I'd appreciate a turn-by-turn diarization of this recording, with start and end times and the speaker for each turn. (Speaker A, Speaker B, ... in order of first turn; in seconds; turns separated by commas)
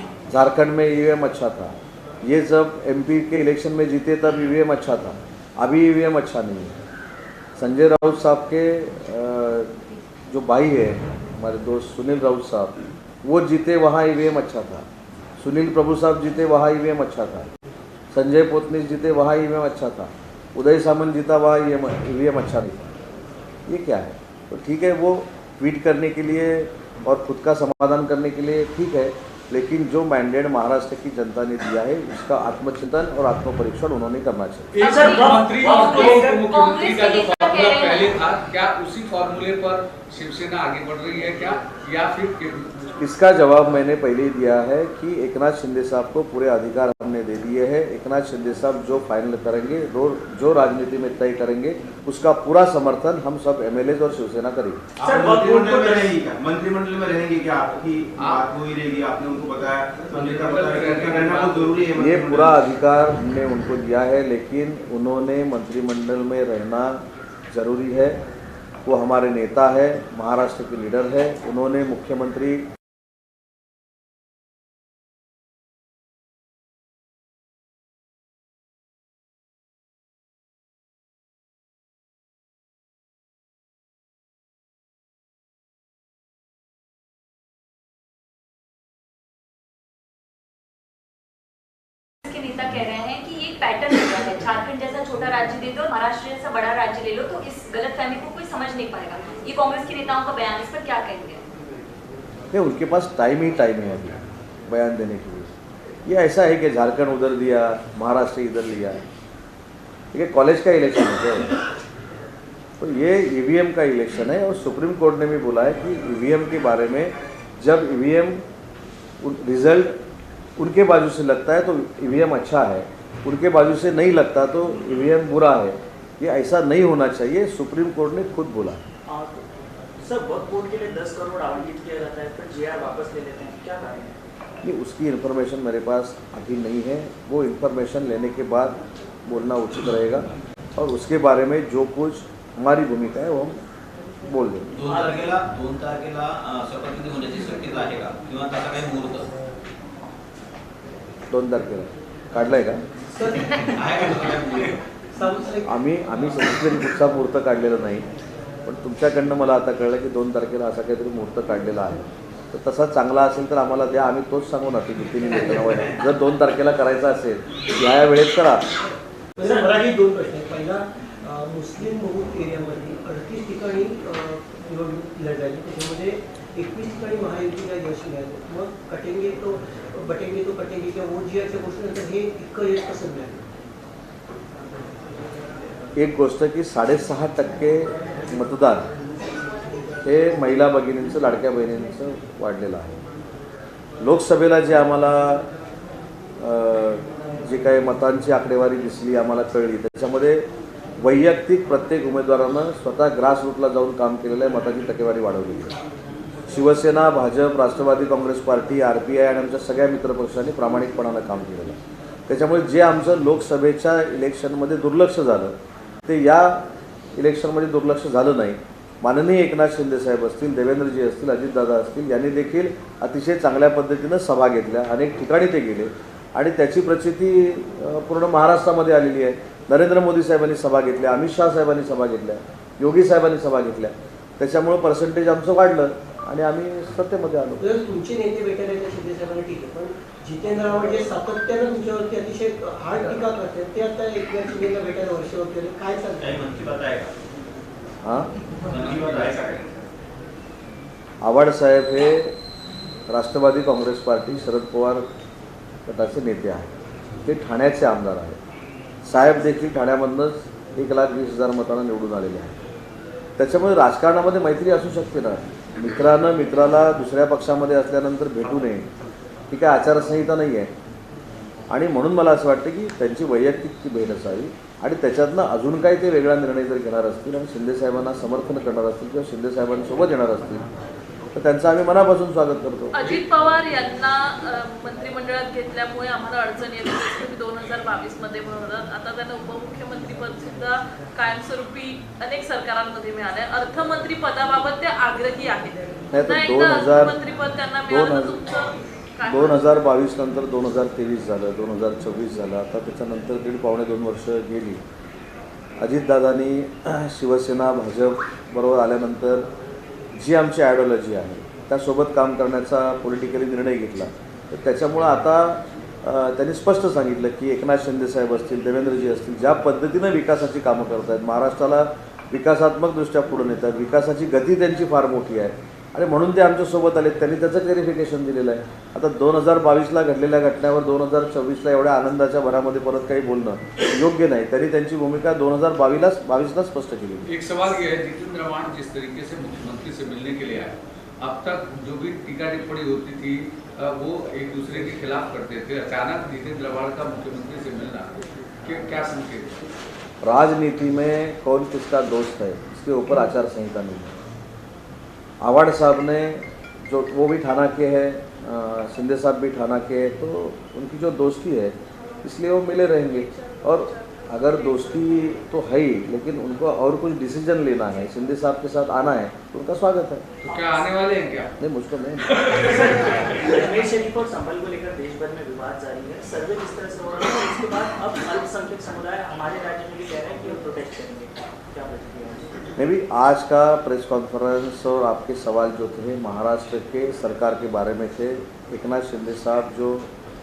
Speaker A: 0.3-6.8, Speaker A: 7.5-9.7, Speaker A: 10.3-12.7, Speaker A: 13.2-14.9, Speaker A: 15.4-17.5, Speaker A: 18.1-23.0, Speaker A: 23.7-34.7, Speaker B: 34.7-42.7, Speaker C: 34.8-36.5, Speaker D: 34.8-38.2, Speaker A: 43.0-54.9, Speaker E: 55.0-62.6, Speaker C: 55.0-56.1, Speaker B: 58.2-58.4, Speaker B: 60.1-61.9, Speaker A: 61.9-68.2, Speaker A: 68.8-72.7, Speaker D: 92.2-101.4, Speaker A: 102.5-105.5, Speaker A: 106.0-109.0, Speaker A: 110.1-111.5, Speaker A: 112.8-118.4, Speaker A: 119.2-120.0, Speaker A: 120.6-128.8, Speaker C: 129.1-129.4, Speaker C: 130.0-134.1, Speaker A: 134.6-143.6, Speaker A: 144.2-144.7, Speaker F: 144.7-149.3, Speaker C: 144.8-145.3, Speaker A: 151.3-152.8, Speaker G: 153.1-154.3, Speaker F: 153.7-154.8, Speaker G: 155.2-155.7, Speaker A: 155.7-158.1, Speaker A: 158.6-168.6, Speaker G: 169.4-183.4, Speaker C: 169.4-169.7, Speaker A: 185.9-188.9, Speaker A: 190.0-193.0, Speaker A: 194.0-195.4, Speaker A: 196.4-200.5, Speaker A: 201.0-205.7, Speaker A: 206.5-216.6, Speaker A: 217.1-237.6, Speaker G: 237.6-246.3, Speaker F: 246.2-247.1, Speaker A: 248.0-248.3, Speaker F: 248.7-249.6, Speaker E: 248.7-249.8, Speaker A: 251.2-252.3, Speaker A: 253.1-255.1, Speaker A: 255.8-256.7, Speaker A: 257.2-258.4, Speaker A: 259.0-262.6, Speaker A: 263.4-268.9, Speaker A: 269.5-270.7, Speaker A: 271.7-280.6, Speaker A: 281.3-282.9, Speaker H: 282.9-299.6, Speaker A: 296.1-297.2, Speaker A: 297.9-298.5, Speaker A: 299.2-304.8, Speaker A: 305.8-309.5, Speaker A: 310.1-337.3, Speaker B: 337.3-348.1, Speaker B: 348.6-349.7, Speaker A: 350.2-354.1, Speaker A: 355.4-370.3, Speaker B: 370.4-371.5, Speaker A: 371.6-372.3, Speaker C: 372.5-382.7, Speaker A: 382.8-390.1